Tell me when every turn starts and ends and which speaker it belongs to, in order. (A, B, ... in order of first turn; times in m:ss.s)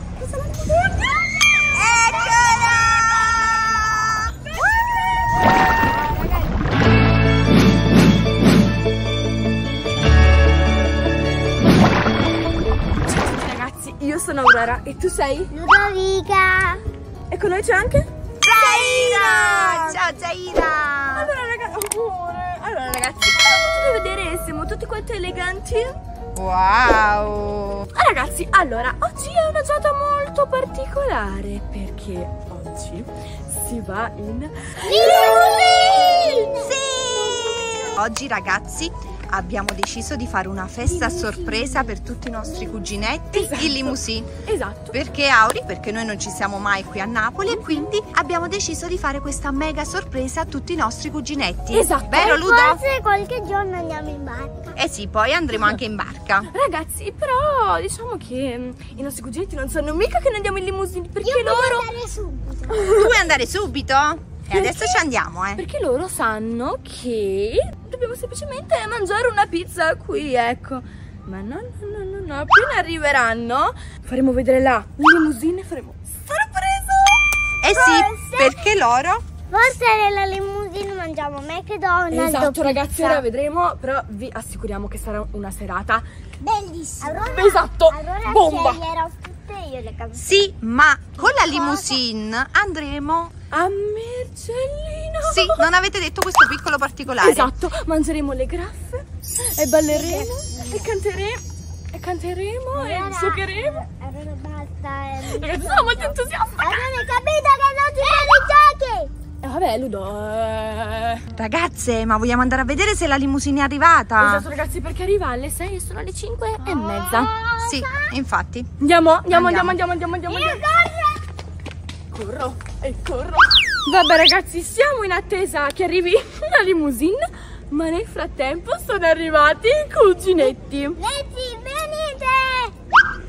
0:00.2-0:01.1 A
0:01.7-0:03.9 B
0:05.9-0:06.5 A
0:13.1-0:15.5 A
0:15.5-0:16.8 C
0:17.3-0:18.1 A
0:18.4-0:21.3 B
0:18.6-0:18.9 C
0:18.7-0:20.0 A
0:21.1-0:26.0 A
0:26.3-0:27.8 B
0:27.9-0:36.4 A
0:34.8-0:36.7 C
0:35.4-0:44.3 B
0:41.1-0:41.5 C
0:43.3-0:45.0 A
0:44.9-0:52.8 B
0:51.7-0:52.3 A
0:52.2-0:54.7 C
0:54.8-0:56.5 B
0:56.5-1:01.9 A
1:01.2-1:02.9 C
1:02.7-1:03.1 A
1:02.8-1:05.6 B
1:04.5-1:05.0 A
1:05.6-1:17.2 A
1:17.6-1:19.2 B
1:17.7-1:18.6 C
1:19.5-1:23.2 C
1:22.1-1:26.0 A
1:26.4-1:30.4 C
1:27.0-1:28.8 A
1:30.1-1:33.3 B
1:31.2-1:32.0 C
1:33.5-1:35.6 A
1:35.2-1:37.5 B
1:37.2-1:41.4 A
1:39.9-1:40.8 C
1:41.9-1:43.8 A
1:42.7-1:49.1 C
1:45.2-1:47.0 A
1:48.0-1:48.5 A
1:49.4-1:51.2 A
1:51.3-1:54.4 B
1:54.2-1:57.3 A
1:56.6-1:58.1 C
1:57.6-1:58.7 B
1:58.8-2:00.6 A
1:59.3-1:59.8 B
2:00.3-2:01.2 C
2:02.1-2:11.0 A
2:11.0-2:12.7 C